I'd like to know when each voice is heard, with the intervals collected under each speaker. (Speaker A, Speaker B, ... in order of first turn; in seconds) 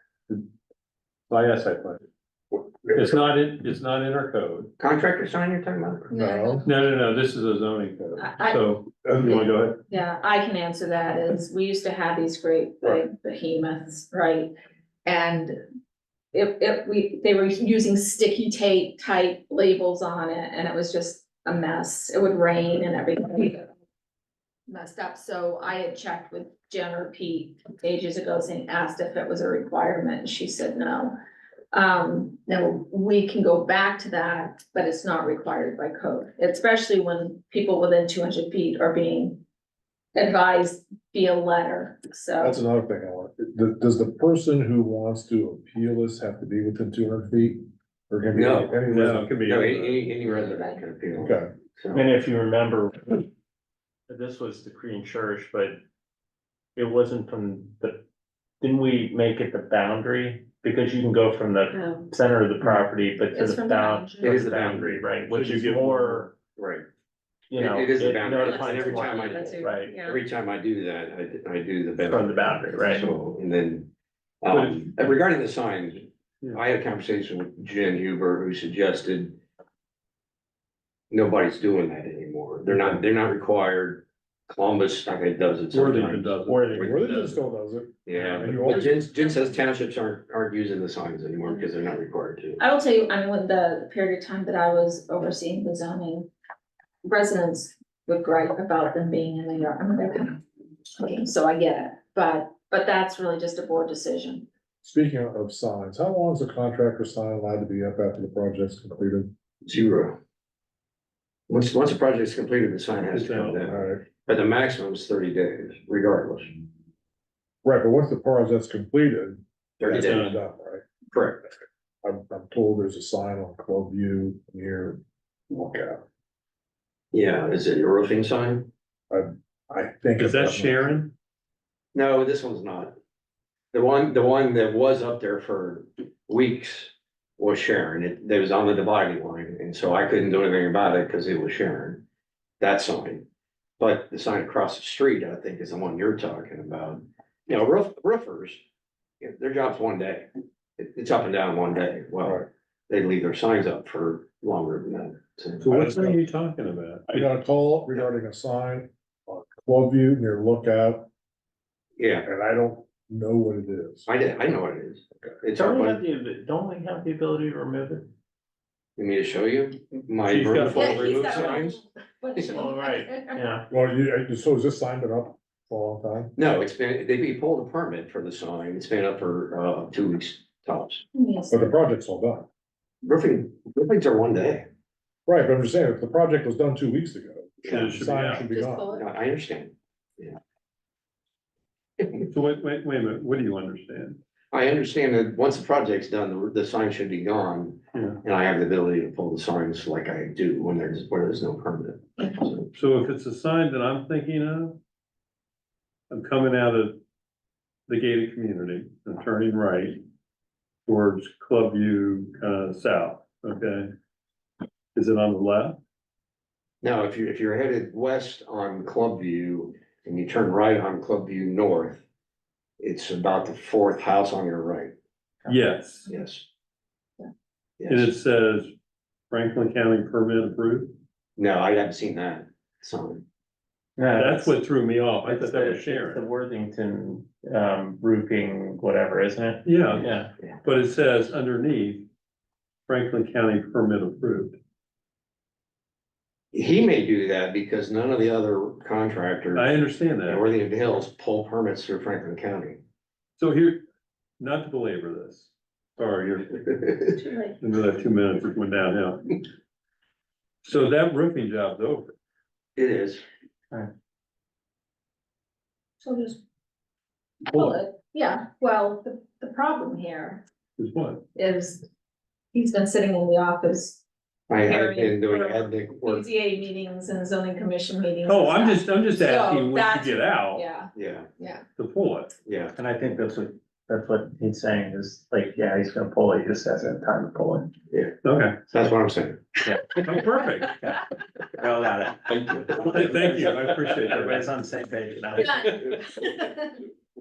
Speaker A: 1.3-2.0, 2.9-4.7, 6.6-9.8, 48.9-50.0, 74.5-75.1, 82.7-83.0, 85.7-86.7, 88.1-88.6, 113.1-113.6, 119.9-120.4, 130.2-131.1, 155.6-157.3, 170.2-171.5, 187.7-188.4, 192.3-194.2, 197.9-198.2, 202.7-204.8, 206.1-207.0, 207.9-210.0, 210.9-213.9, 214.9-215.8, 225.5-226.1, 227.9-228.7, 229.3-230.9, 234.2-236.2, 239.7-242.1, 242.9-244.6, 249.6-250.4, 253.4-253.8, 254.4-256.8, 257.6-259.4, 260.6-262.1, 267.5-267.8, 270.8-271.2, 278.2-280.6, 281.8-282.4, 288.2-288.6, 290.0-290.8, 292.8-294.6
Speaker B: 4.8-6.1, 48.3-48.8, 49.5-52.1, 64.2-65.0, 66.6-66.8, 67.6-73.9, 74.4-79.4, 81.1-87.3, 88.1-92.6, 109.7-110.2, 111.5-116.5, 119.8-120.3, 121.1-121.5, 127.1-128.7, 131.9-132.9, 133.7-142.0, 142.6-143.2, 143.8-148.6, 149.2-150.3, 150.8-155.7, 162.0-162.3, 164.1-166.0, 169.0-171.8, 172.4-172.6, 176.4-181.0, 183.0-184.7, 187.7-188.0, 188.9-190.4, 194.5-202.7, 216.8-222.0, 222.8-224.9, 226.1-226.5, 227.8-228.1, 231.4-233.2, 246.5-252.8, 262.8-263.2, 274.5-276.2, 280.9-281.3, 282.4-282.7, 288.7-289.6
Speaker C: 6.1-6.7, 8.2-14.5, 15.1-15.6, 16.3-23.7, 24.7-31.1, 31.7-39.4, 40.1-42.6, 50.2-50.9, 61.7-62.0, 63.3-64.5, 68.3-70.2, 92.6-96.3, 97.0-104.5, 170.7-173.5, 181.1-181.7, 188.5-189.0, 257.1-257.6, 266.0-266.4, 267.5-270.4, 271.4-271.9, 272.5-274.0, 274.7-281.6, 295.4-296.8
Speaker D: 6.1-6.7, 9.0-9.3, 42.4-49.3, 51.2-51.5, 65.3-66.2, 86.7-89.2, 104.8-109.3, 113.6-114.0, 117.6-120.8, 122.0-126.0, 129.1-130.9, 155.6-156.2, 157.1-161.1, 162.2-164.1, 173.7-176.3, 181.5-182.5, 185.3-188.9
Speaker E: 51.9-53.2, 54.1-55.8, 56.8-58.0, 58.6-66.3, 67.5-70.0, 72.0-73.1, 86.4-87.4, 165.5-168.1, 172.5-173.7, 234.0-234.6, 235.2-240.3, 282.8-287.7, 289.7-295.9